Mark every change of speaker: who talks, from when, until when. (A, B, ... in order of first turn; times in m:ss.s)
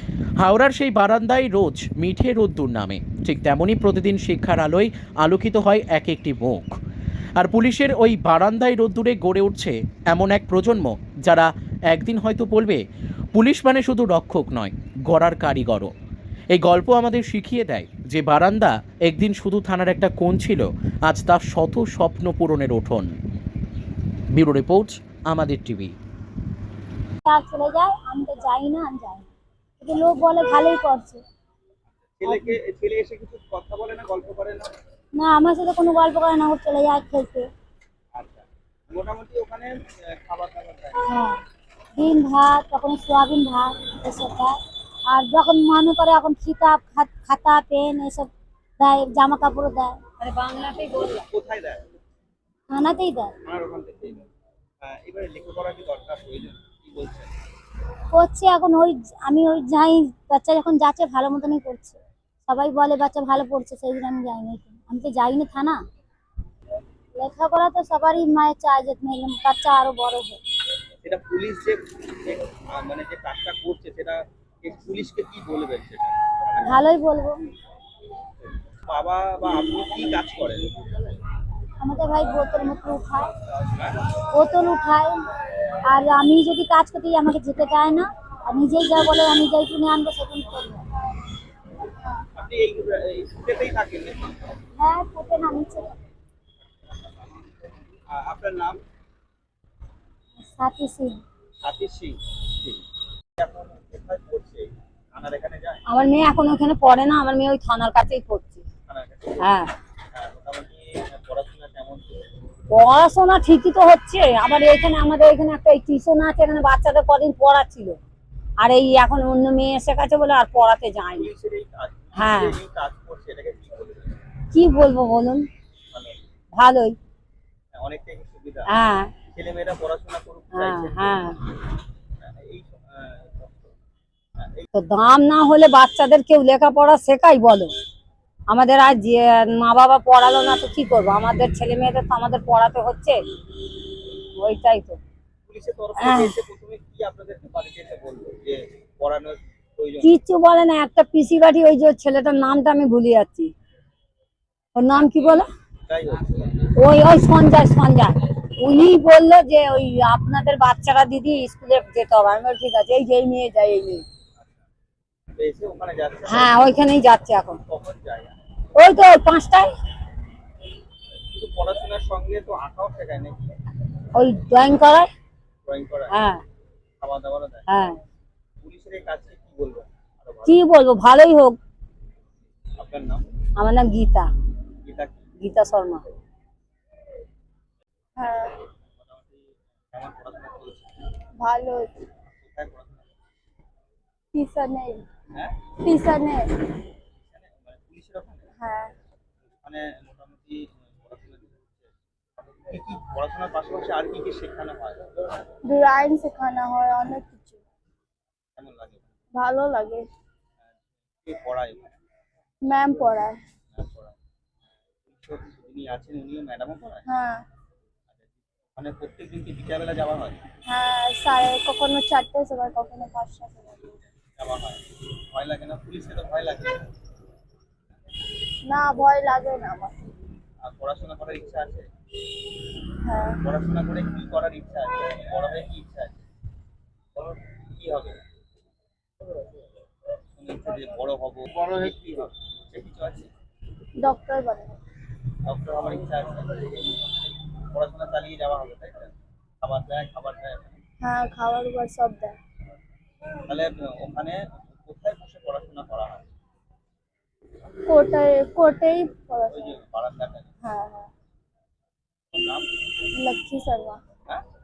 0:00.4-0:06.8 A
0:07.4-0:12.8 A
0:13.3-0:15.9 A
0:16.5-0:23.1 A
0:24.3-0:26.0 A
0:27.2-0:29.3 B
0:29.8-0:31.2 B
0:32.2-0:34.7 C
0:35.2-0:37.5 B
0:38.2-0:41.0 C
0:41.1-0:41.4 B
0:42.0-0:44.6 B
0:45.1-0:48.3 B
0:48.8-0:50.0 B
0:50.2-0:51.3 D
0:51.3-0:51.8 C
0:52.7-0:53.3 B
0:53.4-0:54.3 C
0:54.8-0:57.3 C
0:58.1-1:05.8 B
1:07.2-1:10.4 B
1:11.0-1:16.8 C
1:16.6-1:17.4 B
1:18.9-1:21.1 C
1:21.8-1:23.3 B
1:23.6-1:24.0 C
1:24.3-1:25.2 B
1:25.9-1:30.8 B
1:32.3-1:34.3 C
1:34.8-1:36.0 B
1:38.1-1:38.8 C
1:40.4-1:41.2 B
1:41.6-1:42.8 C
1:43.4-1:45.8 C
1:45.9-1:48.6 D
1:48.9-1:49.5 C
1:49.4-1:49.7 D
1:50.1-1:52.2 C
1:52.7-1:58.0 D
1:58.6-2:01.3 D
2:01.1-2:04.2 C
2:02.2-2:02.6 D
2:04.5-2:05.4 D
2:05.9-2:06.2 C
2:06.6-2:07.0 D
2:07.7-2:08.7 C
2:08.7-2:09.1 D
2:09.3-2:11.3 C
2:10.5-2:11.4 D
2:12.2-2:13.7 C
2:14.4-2:14.7 C
2:14.7-2:17.7 D
2:18.5-2:23.2 D
2:24.4-2:25.0 D
2:25.5-2:30.1 C
2:26.0-2:26.3 D
2:30.0-2:33.5 D
2:34.8-2:35.5 D
2:34.9-2:36.7 C
2:36.8-2:44.0 D
2:45.3-2:46.7 C
2:46.3-2:47.6 D
2:47.7-2:48.4 C
2:48.8-2:49.7 D
2:51.3-2:53.5 C
2:54.2-2:55.1 D
2:55.7-2:56.1 C
2:56.1-2:56.4 D
2:57.0-2:57.7 C
2:57.7-2:58.0 D
2:58.6-3:00.6 C
3:00.4-3:01.6 D
3:02.8-3:03.2 C
3:03.6-3:04.3 D
3:04.8-3:05.3 C
3:05.4-3:06.0 D
3:08.2-3:08.6 E
3:09.0-3:10.9 C
3:11.4-3:11.9 E
3:12.4-3:13.1 C
3:14.3-3:15.0 E
3:15.4-3:15.7 C
3:15.8-3:16.5 E
3:17.3-3:18.5 C
3:18.6-3:18.9 E
3:19.6-3:21.9 C
3:22.7-3:25.2 C
3:25.6-3:27.6 E
3:28.6-3:29.1 C
3:29.3-3:30.0 E
3:31.2-3:31.9 C
3:32.6-3:33.4 E
3:33.8-3:34.2 C
3:35.1-3:37.0 C
3:37.1-3:37.4 E
3:38.8-3:40.4 C
3:40.7-3:44.0 E
3:44.4-3:46.9 C
3:48.7-3:49.9 E
3:50.6-3:51.8 C
3:53.0-3:53.4 E
3:53.4-3:56.2 C
3:57.2-3:58.2 C
4:00.4-4:03.3 C
4:04.0-4:04.8 E
4:05.4-4:06.7 C
4:07.7-4:10.8 C
4:11.0-4:12.4 E
4:13.5-4:16.2 C
4:17.9-4:19.7 E
4:19.5-4:20.5 C
4:20.6-4:21.1 E
4:22.3-4:22.7 C
4:23.2-4:24.0 E